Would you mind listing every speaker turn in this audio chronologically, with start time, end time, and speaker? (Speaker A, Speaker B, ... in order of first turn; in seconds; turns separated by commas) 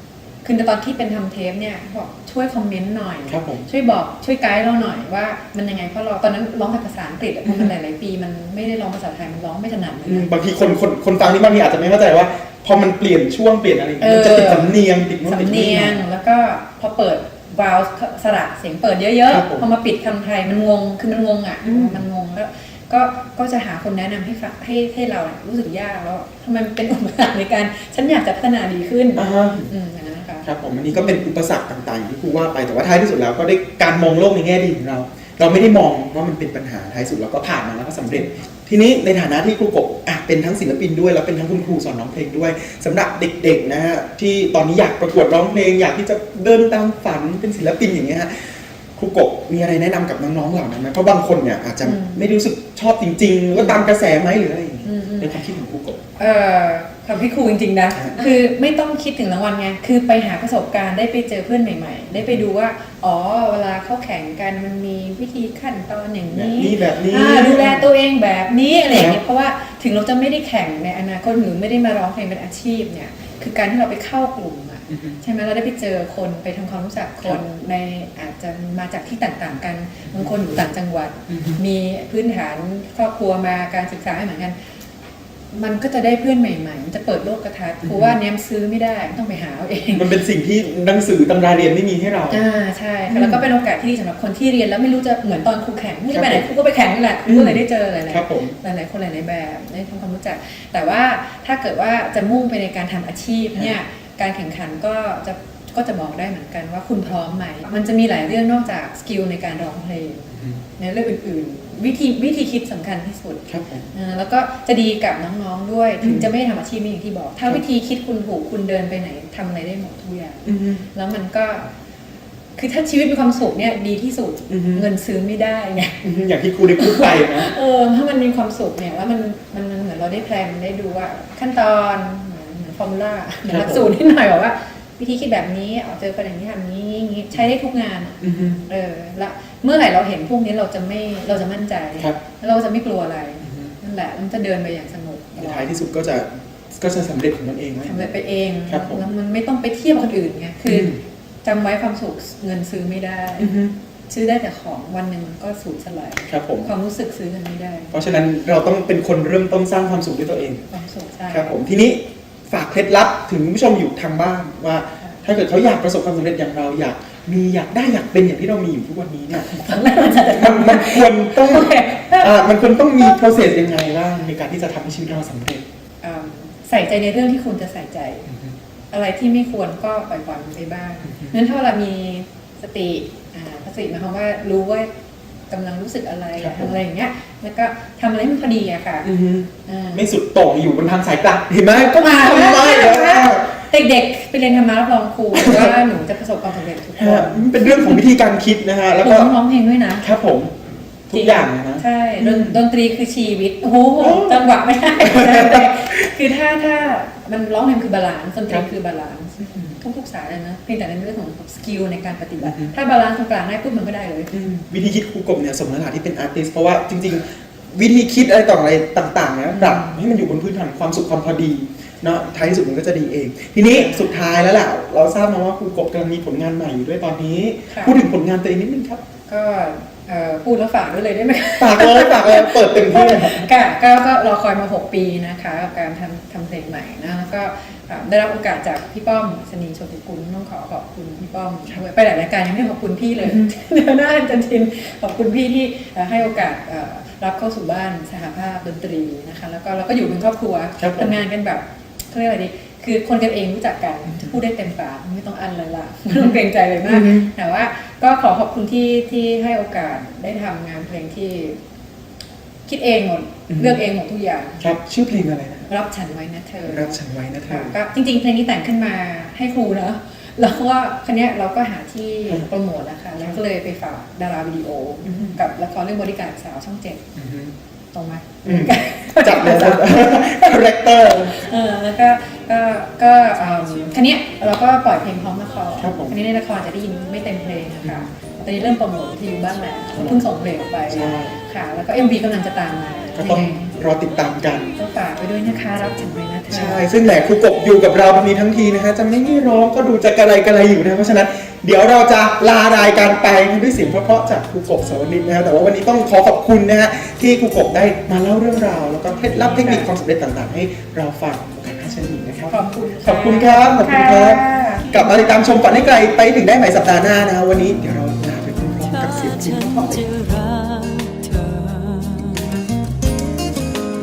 Speaker A: 0.4-10.3, Speaker B: 3.3-3.7, Speaker B: 7.5-7.7, Speaker B: 10.1-16.0, Speaker A: 14.0-31.3, Speaker B: 19.3-19.6, Speaker B: 21.6-22.0, Speaker B: 29.1-29.7, Speaker B: 30.4-56.0, Speaker A: 51.8-52.2, Speaker A: 53.5-53.8, Speaker A: 54.8-55.4, Speaker A: 56.2-84.5, Speaker B: 62.2-62.4, Speaker B: 66.3-67.9, Speaker B: 68.9-69.2, Speaker B: 74.9-75.2, Speaker B: 81.3-81.6, Speaker A: 85.5-90.1, Speaker B: 87.8-88.2, Speaker B: 89.9-92.4, Speaker A: 92.3-121.7, Speaker B: 93.1-93.4, Speaker B: 96.1-96.5, Speaker B: 97.2-98.6, Speaker B: 110.3-110.6, Speaker B: 113.5-113.9, Speaker B: 116.0-116.3, Speaker B: 120.4-120.8, Speaker A: 122.5-126.0, Speaker B: 124.5-124.8, Speaker B: 126.0-127.5, Speaker A: 126.8-145.7, Speaker B: 133.4-133.9, Speaker B: 138.2-138.6, Speaker B: 143.4-143.7, Speaker B: 145.4-148.2, Speaker A: 147.8-153.6, Speaker B: 148.7-149.1, Speaker B: 150.7-151.0, Speaker B: 153.4-153.7, Speaker A: 154.1-158.0, Speaker B: 156.3-156.7, Speaker B: 157.9-160.7, Speaker A: 160.7-161.6, Speaker B: 161.3-175.6, Speaker A: 169.3-172.4, Speaker A: 176.0-178.3, Speaker A: 178.9-184.9, Speaker A: 185.5-189.1, Speaker B: 186.4-186.8, Speaker B: 189.0-193.5, Speaker A: 189.6-190.1, Speaker A: 191.7-198.1, Speaker B: 195.3-195.8, Speaker B: 197.0-199.3, Speaker A: 199.0-200.1, Speaker B: 200.0-200.6, Speaker B: 201.1-202.6, Speaker A: 201.1-214.3, Speaker B: 204.0-204.4, Speaker B: 205.0-205.9, Speaker B: 209.4-209.7, Speaker B: 212.4-212.7, Speaker B: 214.3-229.0, Speaker A: 219.5-220.0, Speaker A: 223.7-224.2, Speaker A: 227.7-228.0, Speaker A: 229.3-261.6, Speaker B: 231.6-233.5, Speaker B: 243.2-243.5, Speaker B: 250.8-251.1, Speaker B: 256.1-257.3, Speaker A: 262.7-264.6, Speaker B: 263.5-263.8, Speaker B: 264.6-265.7, Speaker A: 265.7-277.1, Speaker B: 266.6-267.7, Speaker B: 275.1-275.4, Speaker B: 277.1-277.5, Speaker A: 277.9-293.7, Speaker B: 278.4-281.4, Speaker B: 285.8-286.1, Speaker B: 287.8-288.1, Speaker B: 289.9-290.2, Speaker B: 290.9-291.3, Speaker B: 293.1-294.7, Speaker A: 294.7-296.9, Speaker B: 296.5-320.0, Speaker A: 309.4-309.9, Speaker A: 312.5-315.1, Speaker C: 318.8-322.6